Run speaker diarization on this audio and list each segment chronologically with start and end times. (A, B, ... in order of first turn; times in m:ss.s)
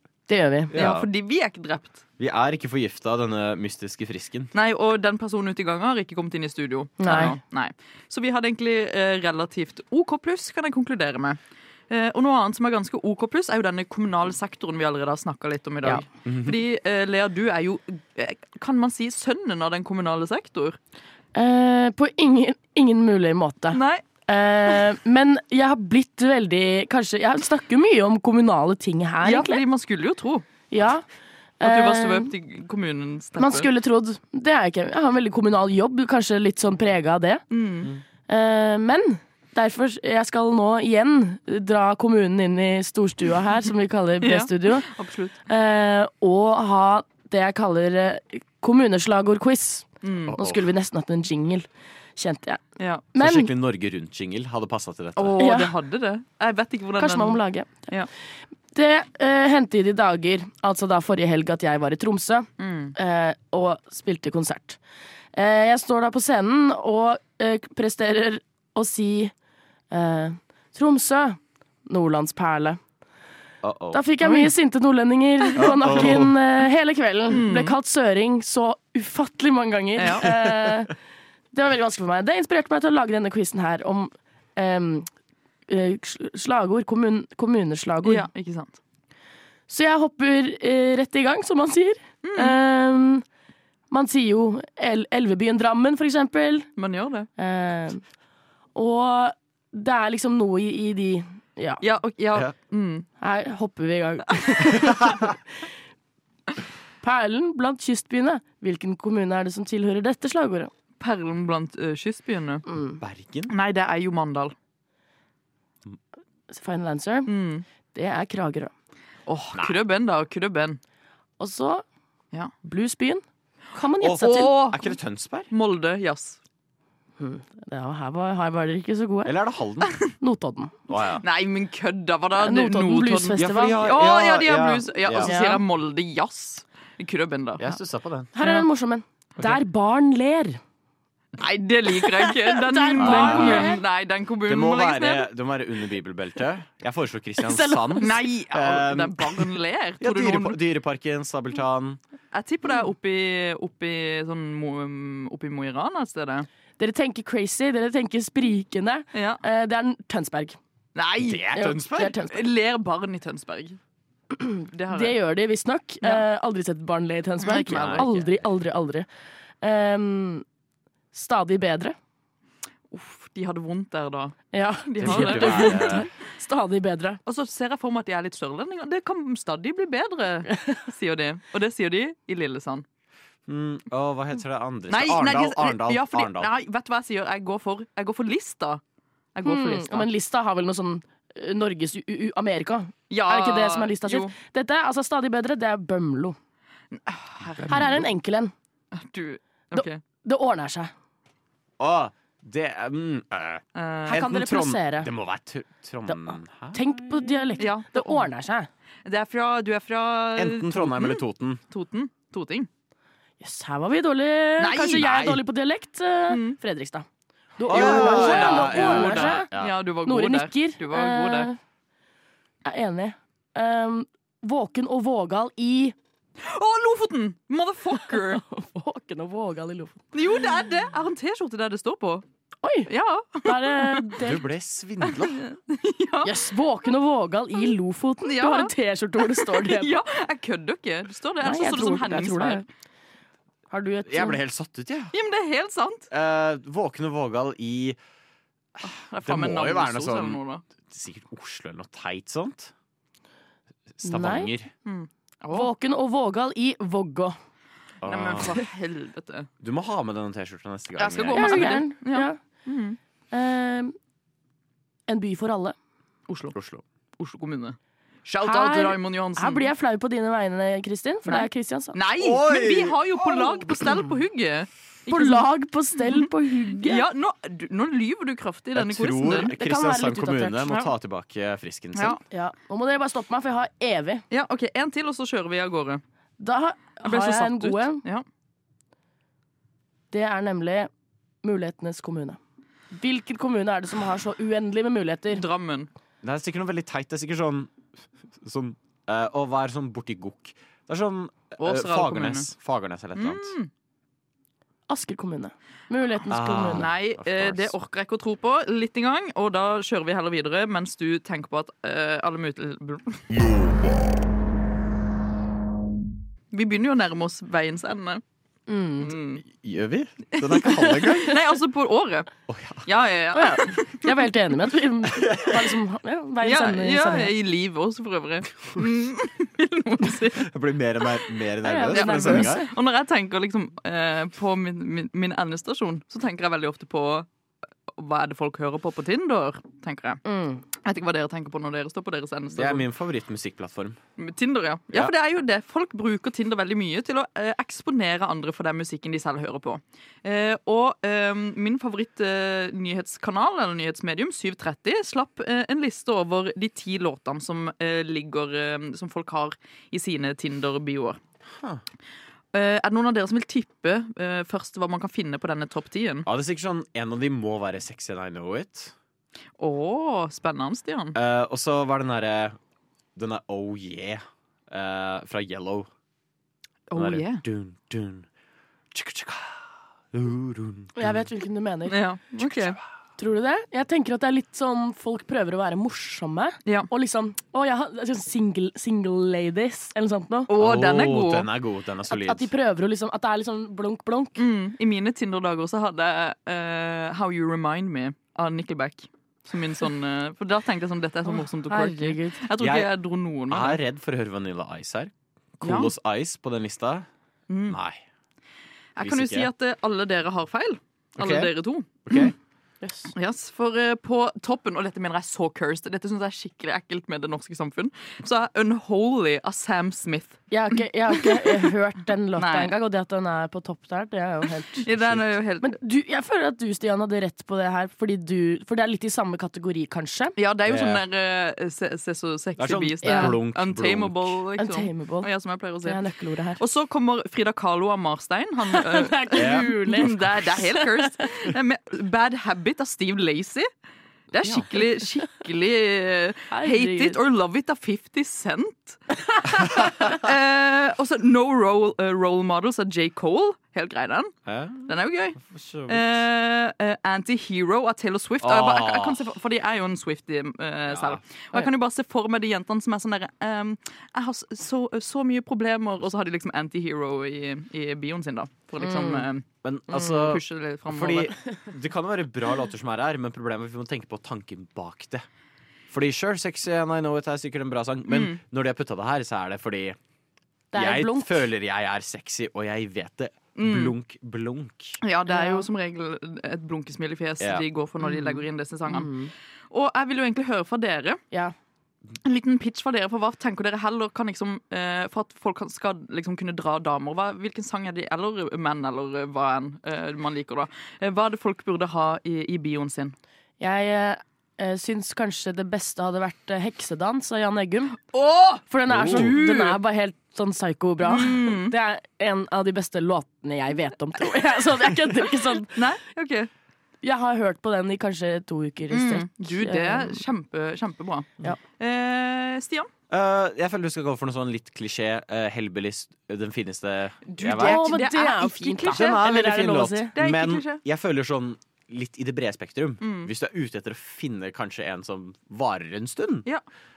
0:00.3-0:00.7 A
0:00.7-0:01.1 B
0:00.7-0:02.0 C
0:02.2-0:04.5 B
0:04.5-0:11.4 C
0:07.0-0:07.4 A
0:11.9-0:20.8 C
0:16.2-0:16.6 B
0:21.3-0:29.6 A
0:23.7-0:24.0 C
0:29.2-0:30.4 C
0:30.7-0:31.0 A
0:31.6-0:32.3 A
0:31.6-0:33.7 C
0:33.4-0:37.4 A
0:37.5-0:37.9 C
0:38.3-0:44.9 A
0:44.2-0:45.4 C
0:45.5-0:52.6 A
0:50.0-0:50.4 C
0:50.3-0:50.7 B
0:52.8-0:53.0 C
0:53.1-0:53.5 A
0:53.2-0:55.4 B
0:55.2-0:58.1 C
0:55.4-0:55.7 A
0:57.0-0:57.9 A
0:58.7-1:04.8 A
1:02.6-1:02.9 C
1:05.3-1:09.3 A
1:09.9-1:12.8 A
1:13.6-1:14.0 B
1:13.9-1:20.9 A
1:15.6-1:16.3 B
1:17.3-1:17.7 C
1:20.0-1:20.3 C
1:21.5-1:25.1 A
1:25.7-1:28.3 A
1:28.0-1:28.8 C
1:29.7-1:33.2 A
1:32.2-1:32.6 C
1:33.9-1:36.7 A
1:36.8-1:37.3 C
1:37.4-1:38.0 A
1:38.7-1:41.8 A
1:41.8-1:43.0 C
1:43.2-1:45.4 A
1:45.0-1:45.3 B
1:47.0-1:50.7 A
1:51.0-1:52.6 C
1:52.7-1:53.0 A
1:53.0-1:53.5 B
1:53.5-1:54.5 C
1:56.5-1:57.3 A
1:57.2-1:57.6 C
1:57.9-1:58.7 A
1:59.3-2:00.8 C
2:01.4-2:01.8 A
2:02.6-2:03.2 A
2:03.7-2:04.5 A
2:04.0-2:05.5 B
2:04.1-2:04.8 C
2:05.5-2:06.4 C
2:07.2-2:09.3 A
2:09.2-2:09.9 B
2:10.2-2:10.8 A
2:10.9-2:11.2 B
2:11.2-2:17.8 C
2:12.4-2:13.8 A
2:13.4-2:15.3 B
2:15.2-2:15.6 A
2:17.6-2:18.3 B
2:18.4-2:20.6 A
2:18.4-2:18.6 C
2:21.4-2:25.3 C
2:22.2-2:23.8 A
2:23.0-2:23.8 B
2:24.4-2:32.0 B
2:27.6-2:28.0 A
2:27.9-2:30.6 C
2:32.3-2:36.5 C
2:36.8-2:40.6 A
2:39.1-2:39.4 C
2:40.9-2:41.6 C
2:41.2-2:42.2 B
2:41.5-2:42.4 A
2:42.2-2:43.8 C
2:44.3-2:49.0 A
2:44.7-2:45.2 C
2:47.4-2:48.2 C
2:47.7-2:48.3 B
2:49.6-2:50.4 A
2:51.1-2:52.0 A
2:52.9-2:56.0 C
2:54.5-2:57.2 A
2:55.0-2:56.1 B
2:57.2-3:02.8 C
3:03.5-3:06.5 B
3:04.9-3:08.8 C
3:09.3-3:10.1 C
3:09.4-3:16.4 A
3:13.1-3:14.3 C
3:16.9-3:17.9 C
3:17.7-3:18.5 A
3:17.7-3:18.0 B
3:18.9-3:20.0 C
3:19.7-3:20.9 A
3:21.8-3:26.8 B
3:23.7-3:24.3 C
3:24.1-3:25.1 A
3:26.1-3:28.7 A
3:27.6-3:28.2 C
3:29.0-3:32.7 C
3:30.4-3:31.6 B
3:33.4-3:37.0 A
3:34.6-3:35.0 C
3:34.9-3:35.4 B
3:36.3-3:36.6 C
3:37.6-3:39.5 A
3:37.6-3:41.5 C
3:37.7-3:39.7 B
3:40.0-3:41.6 A
3:42.6-3:45.9 A
3:46.4-3:48.4 C
3:48.1-3:50.0 A
3:50.1-3:52.2 C
3:52.6-3:52.9 A
3:52.9-3:54.1 C
3:53.4-3:54.4 A
3:54.2-3:55.4 B
3:55.0-3:56.4 C
3:56.2-3:59.9 A
3:58.2-4:02.6 C
4:01.4-4:02.6 A
4:03.7-4:04.4 A
4:04.0-4:05.1 B
4:05.1-4:06.1 C
4:06.1-4:08.0 B
4:08.8-4:10.6 C
4:09.2-4:12.7 B
4:14.0-4:14.7 B
4:14.0-4:14.5 A
4:14.8-4:15.7 C
4:15.5-4:17.4 A
4:18.0-4:18.6 B
4:18.0-4:19.5 C
4:19.6-4:21.8 B
4:21.0-4:23.0 C
4:21.3-4:22.4 A
4:23.3-4:23.9 A
4:25.1-4:25.7 A
4:26.3-4:26.5 C
4:26.5-4:26.8 B
4:27.2-4:29.7 C
4:28.4-4:32.0 A
4:31.3-4:35.4 C
4:32.2-4:33.7 B
4:35.1-4:37.0 A
4:36.0-4:39.5 C
4:38.7-4:42.2 B
4:39.4-4:40.7 A
4:41.9-4:42.2 C
4:42.3-4:44.2 A
4:44.3-4:46.0 C
4:46.4-4:48.0 A
4:47.0-4:48.2 C
4:50.1-4:50.9 A
4:51.4-4:52.4 A
4:52.9-4:55.4 A
4:55.3-4:55.9 C
4:56.2-4:57.7 B
4:58.4-5:03.5 B
5:01.6-5:02.5 C
5:03.2-5:03.7 C
5:04.9-5:06.9 A
5:06.3-5:07.7 B
5:06.7-5:13.2 C
5:16.5-5:18.2 C
5:18.7-5:19.1 A
5:19.0-5:19.4 C
5:19.4-5:21.4 B
5:20.4-5:22.3 C
5:22.5-5:22.8 B
5:22.8-5:24.1 C
5:23.3-5:27.3 A
5:25.1-5:25.7 B
5:26.4-5:30.5 C
5:30.4-5:32.7 B
5:31.6-5:32.7 A
5:31.9-5:37.3 C
5:37.9-5:40.2 C
5:40.2-5:40.6 A
5:40.8-5:42.8 C
5:42.6-5:44.0 B
5:44.2-6:01.2 C
6:01.5-6:01.8 B
6:02.5-6:06.3 C
6:06.2-6:08.9 B
6:09.6-6:11.2 C
6:11.1-6:12.6 B
6:13.2-6:15.9 B
6:16.9-6:17.4 C
6:16.9-6:18.3 B
6:18.9-6:21.2 B
6:21.0-6:22.0 A
6:21.9-6:22.8 C
6:22.4-6:22.7 B
6:23.2-6:30.5 A
6:30.5-6:31.5 C
6:30.6-6:32.5 B
6:32.1-6:34.4 A
6:34.4-6:43.8 C
6:41.3-6:42.4 A
6:42.6-6:42.9 B
6:43.5-6:47.1 B
6:45.6-6:45.9 C
6:47.5-6:47.8 C
6:47.7-6:48.0 B
6:49.0-6:52.3 C
6:49.0-6:49.5 B
6:51.2-6:51.5 B
6:52.0-6:52.3 B
6:52.8-6:53.1 A
6:53.1-7:00.4 C
7:00.5-7:04.9 A
7:01.2-7:01.7 C
7:02.4-7:02.7 C
7:04.8-7:05.8 C
7:04.9-7:05.2 B
7:05.6-7:10.4 A
7:10.4-7:16.0 C
7:10.7-7:11.0 B
7:12.6-7:14.4 B
7:13.0-7:13.4 A
7:14.6-7:15.3 A
7:15.8-7:16.6 A
7:16.6-7:23.7 C
7:18.7-7:21.0 A
7:19.3-7:20.4 B
7:24.3-7:34.3 C
7:26.5-7:27.2 A
7:34.4-7:36.1 B
7:34.8-7:51.3 C
7:38.4-7:39.2 B
7:40.9-7:41.2 B
7:48.8-7:49.3 A
7:49.6-7:55.2 B
7:55.9-8:00.0 B
7:58.1-7:58.4 C
8:00.7-8:01.4 A
8:00.7-8:05.0 B
8:03.6-8:03.9 C
8:05.0-8:09.1 C
8:05.3-8:05.7 A
8:08.0-8:09.3 A
8:09.7-8:11.2 C
8:12.2-8:23.1 C
8:23.6-8:28.0 A
8:28.1-8:29.8 C
8:28.7-8:35.8 A
8:28.9-8:29.3 B
8:31.0-8:31.7 C
8:35.7-8:36.5 C
8:37.0-8:40.2 A
8:38.9-8:42.9 C
8:43.1-8:47.8 B
8:47.2-8:49.2 C
8:47.5-8:50.1 A
8:48.9-8:56.4 B
8:50.1-8:50.8 C
8:53.0-8:53.3 C